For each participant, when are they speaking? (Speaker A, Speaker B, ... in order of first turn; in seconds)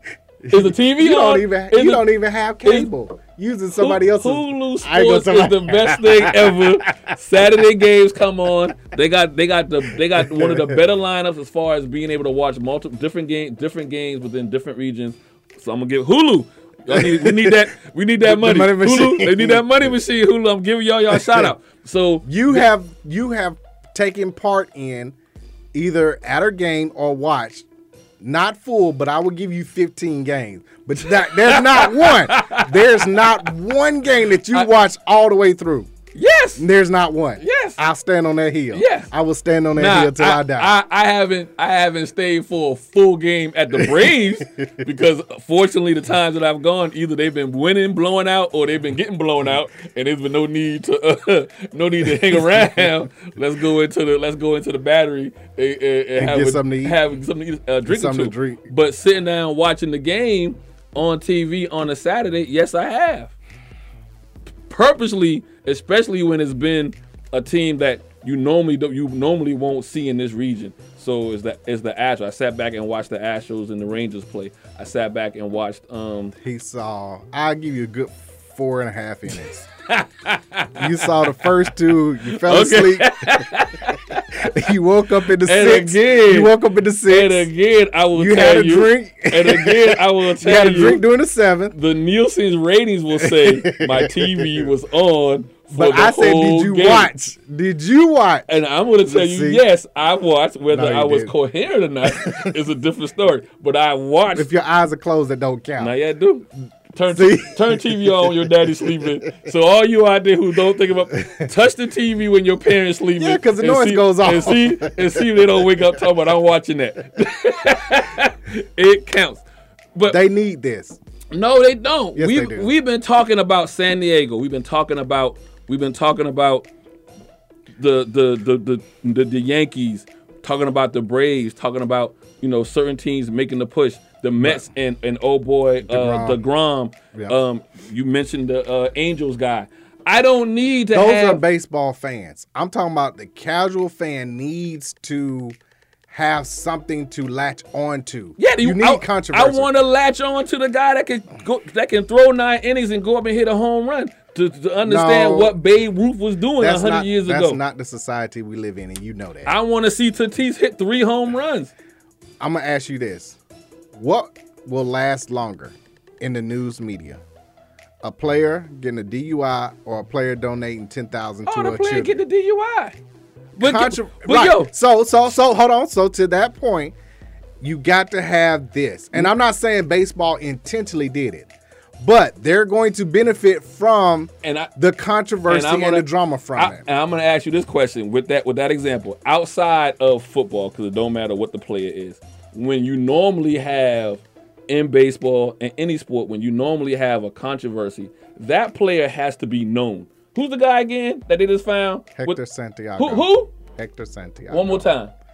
Speaker A: 0.4-7.1, 10.2-10.8, 16.9-17.6, 18.2-19.9, 21.1-21.5, 22.2-25.2, 25.7-27.7, 28.2-35.9, 36.6-40.8, 44.0-44.6, 52.3-52.8, 56.2-57.0, 57.9-58.7, 76.3-79.7, 80.8-83.5, 84.3-87.5, 88.1-91.8, 93.2-94.7, 95.7-98.5, 99.1-99.6, 100.7-101.3, 102.0-102.5, 104.3-105.9, 107.1-109.3, 113.2-115.9, 120.1-121.0, 122.2-122.7, 134.4-134.7, 135.8-136.4, 137.1-137.4, 140.9-145.6, 146.1-149.7, 154.8-155.6, 156.6-159.6, 162.4-163.4, 163.9-167.2, 168.0-172.2, 173.6-176.9, 177.6-186.9, 202.2-204.9
Speaker B: 0.5-2.0, 2.6-2.9, 3.8-22.6, 31.1-33.2, 36.1-36.7, 37.4-37.8, 38.7-39.1, 39.8-63.3, 64.7-76.3, 79.9-81.5, 82.2-84.3, 85.4-86.5, 87.1-91.0, 91.7-97.1, 98.5-104.5, 105.8-119.4, 121.3-126.7, 127.8-141.4, 148.4-157.6, 159.5-161.7, 171.5-173.0, 173.6-174.7, 184.4-184.7, 185.5-202.4, 203.0-203.5, 204.5-205.1